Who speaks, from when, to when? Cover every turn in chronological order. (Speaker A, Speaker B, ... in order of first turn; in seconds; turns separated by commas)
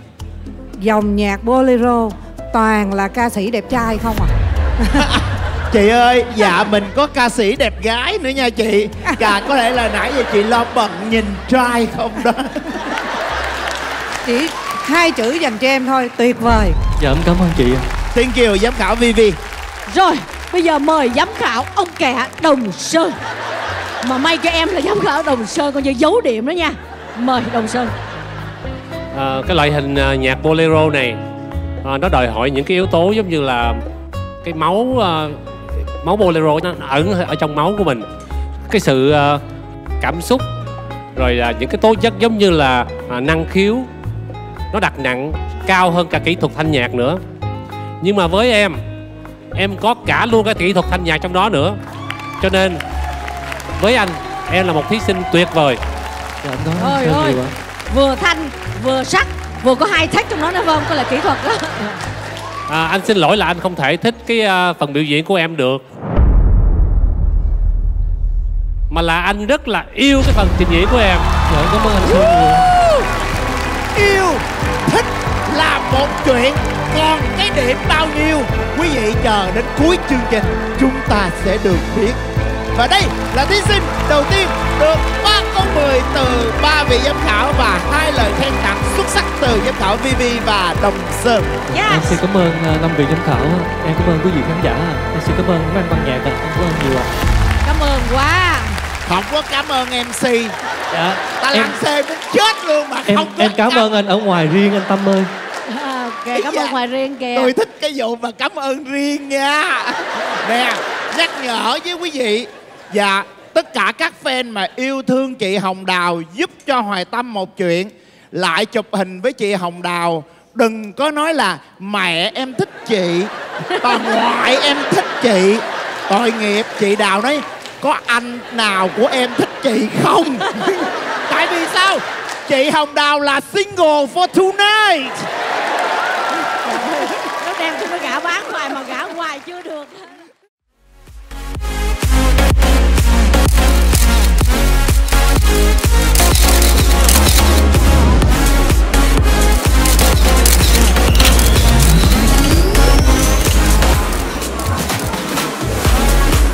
Speaker A: 0.8-4.3, Speaker B: 5.7-12.8, Speaker A: 14.2-16.8, Speaker C: 17.0-17.8, Speaker B: 18.1-19.4, Speaker D: 19.9-23.1, Speaker D: 24.0-27.9, Speaker E: 29.1-31.2, Speaker E: 31.8-33.8, Speaker E: 34.4-35.4, Speaker E: 36.0-38.0, Speaker E: 38.7-39.4, Speaker E: 40.0-40.4, Speaker E: 41.1-43.9, Speaker E: 44.7-47.2, Speaker E: 48.0-48.8, Speaker E: 49.5-51.8, Speaker E: 52.4-52.8, Speaker E: 53.8-55.8, Speaker C: 56.4-57.5, Speaker D: 56.8-62.0, Speaker E: 62.7-65.8, Speaker E: 68.9-71.2, Speaker C: 71.5-72.7, Speaker B: 72.0-73.1, Speaker B: 73.9-82.2, Speaker B: 82.7-91.5, Speaker D: 91.7-92.2, Speaker C: 91.8-97.1, Speaker D: 97.6-98.8, Speaker B: 99.0-100.5, Speaker C: 100.9-101.7, Speaker B: 101.3-103.8, Speaker C: 103.0-105.3, Speaker D: 105.7-107.5, Speaker B: 106.3-106.8, Speaker B: 107.3-135.3, Speaker D: 136.6-140.1